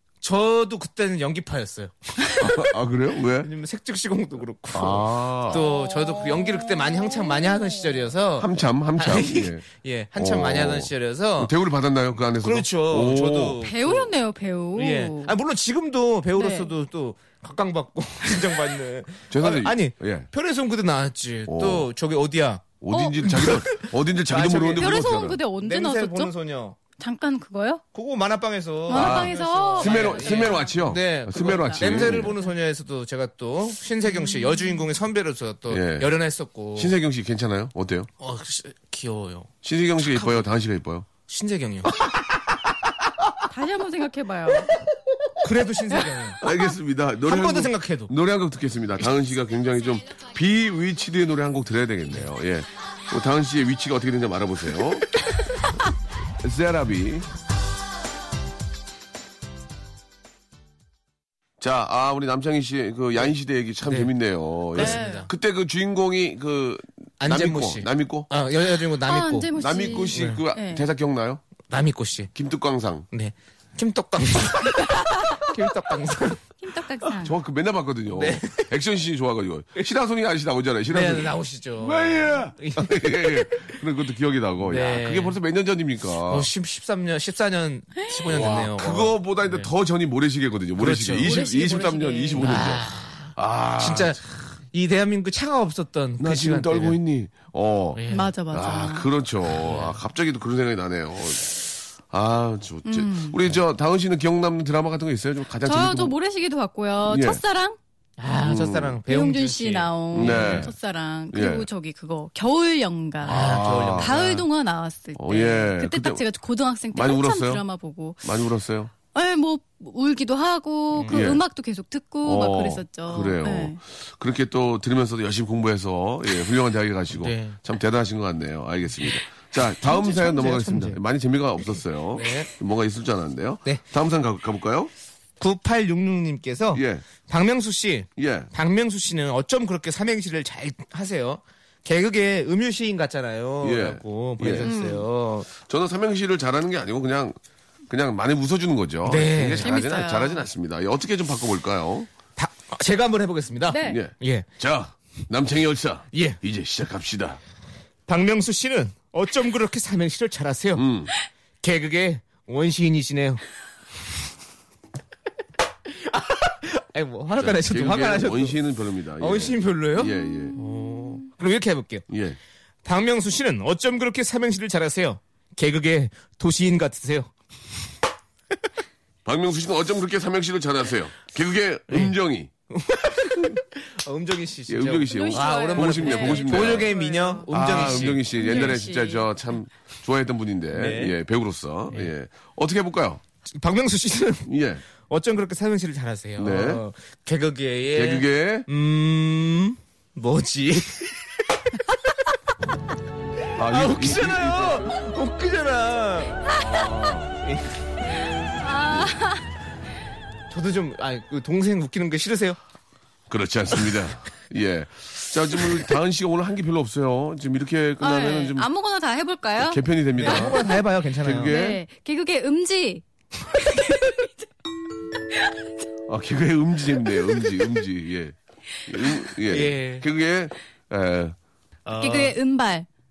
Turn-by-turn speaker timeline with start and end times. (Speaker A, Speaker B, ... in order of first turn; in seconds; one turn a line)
Speaker A: 0.2-2.7
Speaker B: 2.4-3.5
Speaker A: 3.4-11.5
Speaker B: 4.7-5.7
Speaker B: 8.4-9.6
Speaker B: 10.2-13.6
Speaker A: 12.4-14.1
Speaker C: 13.6-15.3
Speaker A: 14.8-22.6
Speaker C: 16.3-16.7
Speaker B: 19.3-20.3
Speaker B: 21.5-21.9
Speaker B: 22.8-25.4
Speaker C: 22.9-23.4
Speaker A: 23.3-25.0
Speaker C: 24.8-26.3
Speaker A: 25.6-26.8
Speaker C: 27.0-27.8
Speaker A: 27.9-36.9
Speaker C: 28.9-30.8
Speaker B: 28.9-32.3
Speaker C: 34.1-34.9
Speaker B: 35.7-36.1
Speaker B: 36.8-38.1
Speaker A: 38.2-40.4
Speaker B: 39.6-41.1
Speaker A: 41.3-42.0
Speaker C: 43.5-44.8
Speaker A: 45.4-46.4
Speaker B: 46.4-55.1
Speaker A: 47.2-48.1
Speaker B: 56.4-57.3
Speaker B: 61.6-68.3
Speaker A: 64.7-65.3
Speaker C: 64.8-65.3
Speaker A: 67.2-69.5
Speaker C: 69.0-70.8
Speaker B: 69.6-71.4
Speaker A: 70.1-70.4
Speaker A: 71.7-72.3
Speaker B: 72.3-73.0
Speaker A: 73.1-76.4
Speaker C: 76.6-77.3
Speaker B: 77.1-86.5
Speaker A: 78.1-78.7
Speaker A: 80.9-83.5
Speaker A: 84.6-85.4
Speaker A: 86.2-89.7
Speaker B: 88.2-92.8
Speaker A: 90.8-91.4
Speaker C: 91.2-92.7
Speaker A: 92.4-97.0
Speaker B: 93.3-94.2
Speaker B: 96.2-106.2
Speaker A: 97.9-98.3
Speaker C: 98.1-99.1
Speaker A: 99.6-100.0
Speaker C: 102.8-103.4
Speaker C: 105.6-107.8
Speaker B: 107.0-107.4
Speaker A: 108.2-110.7
Speaker B: 108.4-109.0
Speaker C: 109.1-118.3
Speaker B: 110.1-110.7
Speaker B: 111.3-111.7
Speaker A: 113.2-114.5
Speaker B: 113.2-114.1
Speaker B: 115.2-116.2
Speaker B: 116.9-117.6
Speaker B: 118.2-118.9
Speaker C: 119.1-123.8
Speaker A: 120.9-121.2
Speaker B: 121.1-121.4
Speaker B: 122.2-134.9
Speaker A: 127.1-127.6
Speaker A: 129.8-131.0
Speaker A: 132.1-132.5
Speaker A: 135.4-145.5
Speaker B: 136.7-137.0
Speaker B: 138.2-138.5
Speaker B: 143.6-144.7
Speaker C: 144.6-145.0
Speaker B: 145.5-147.3
Speaker B: 147.9-152.1
Speaker A: 149.0-149.7
Speaker C: 149.6-150.5
Speaker A: 152.4-154.4
Speaker C: 153.7-154.0
Speaker B: 153.9-157.4
Speaker A: 156.1-156.4
Speaker A: 158.1-160.9
Speaker B: 160.8-161.1
Speaker A: 161.6-163.4
Speaker A: 165.8-168.6
Speaker B: 167.3-170.6
Speaker A: 169.2-172.1
Speaker B: 172.1-172.4
Speaker A: 172.8-177.3
Speaker B: 179.2-182.5
Speaker A: 181.9-182.1
Speaker A: 182.7-188.7
Speaker B: 183.1-183.5
Speaker B: 184.7-186.9
Speaker C: 185.1-189.3
Speaker B: 187.5-193.2
Speaker A: 190.7-191.2
Speaker A: 193.5-194.5
Speaker B: 194.5-194.8
Speaker A: 195.0-202.3
Speaker B: 196.4-196.8
Speaker B: 197.9-198.7
Speaker A: 203.6-206.6
Speaker B: 203.6-205.0
Speaker B: 206.5-207.3
Speaker A: 207.4-207.7
Speaker C: 208.6-209.4
Speaker B: 208.9-209.2
Speaker A: 210.5-212.6
Speaker B: 213.3-218.7
Speaker C: 218.0-220.6
Speaker B: 219.6-220.6
Speaker A: 220.2-221.6
Speaker B: 221.2-221.8
Speaker C: 221.3-224.3
Speaker B: 226.1-228.3
Speaker B: 228.9-231.3
Speaker A: 229.5-230.1
Speaker A: 231.8-232.3
Speaker C: 232.0-232.9